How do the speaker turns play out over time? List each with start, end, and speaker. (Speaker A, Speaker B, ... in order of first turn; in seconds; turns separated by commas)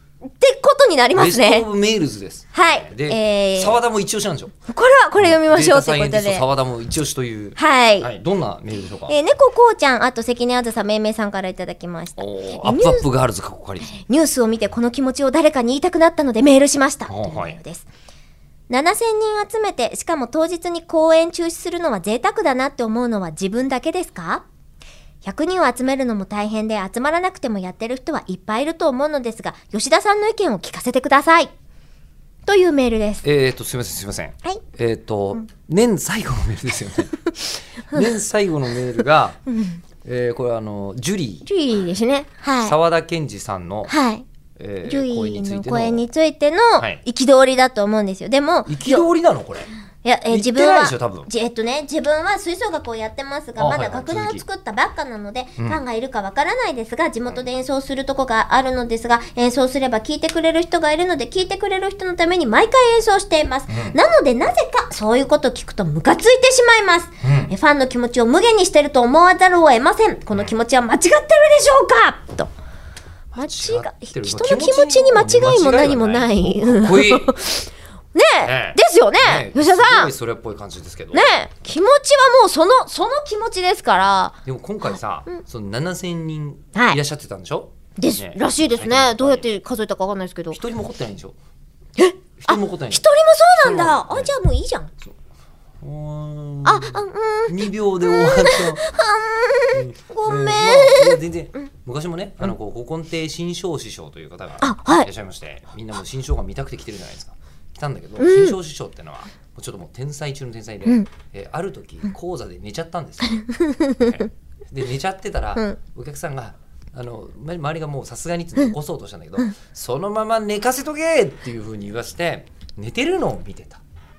Speaker A: 0.2-1.7, Speaker B: 1.1-4.5, Speaker A: 2.5-3.8, Speaker A: 4.7-6.4, Speaker B: 5.2-9.1, Speaker A: 7.5-8.1, Speaker A: 9.1-13.1, Speaker B: 12.2-14.0, Speaker A: 13.9-17.9, Speaker B: 17.1-17.6, Speaker A: 18.7-24.4, Speaker A: 25.2-31.5, Speaker A: 32.5-33.2, Speaker B: 33.2-37.2, Speaker B: 37.9-39.4, Speaker A: 39.5-39.8, Speaker B: 40.0-41.5, Speaker A: 41.5-42.8, Speaker B: 42.6-43.9, Speaker A: 43.9-44.2, Speaker B: 44.6-46.0, Speaker A: 44.8-49.0, Speaker B: 48.6-49.7, Speaker A: 50.0-72.5, Speaker B: 50.3-51.3, Speaker B: 53.6-54.4, Speaker B: 63.7-63.9, Speaker B: 67.2-67.5, Speaker B: 73.3-77.3, Speaker A: 73.4-80.1, Speaker B: 78.4-81.3, Speaker A: 81.1-84.4, Speaker B: 84.4-89.5, Speaker A: 88.0-90.6, Speaker B: 90.5-91.3, Speaker A: 92.0-94.9, Speaker B: 92.4-93.0, Speaker B: 93.6-94.3, Speaker B: 95.8-98.8, Speaker A: 96.6-101.2, Speaker B: 99.7-113.4, Speaker A: 104.6-105.1, Speaker A: 108.2-108.6, Speaker A: 113.2-114.2, Speaker B: 114.0-123.8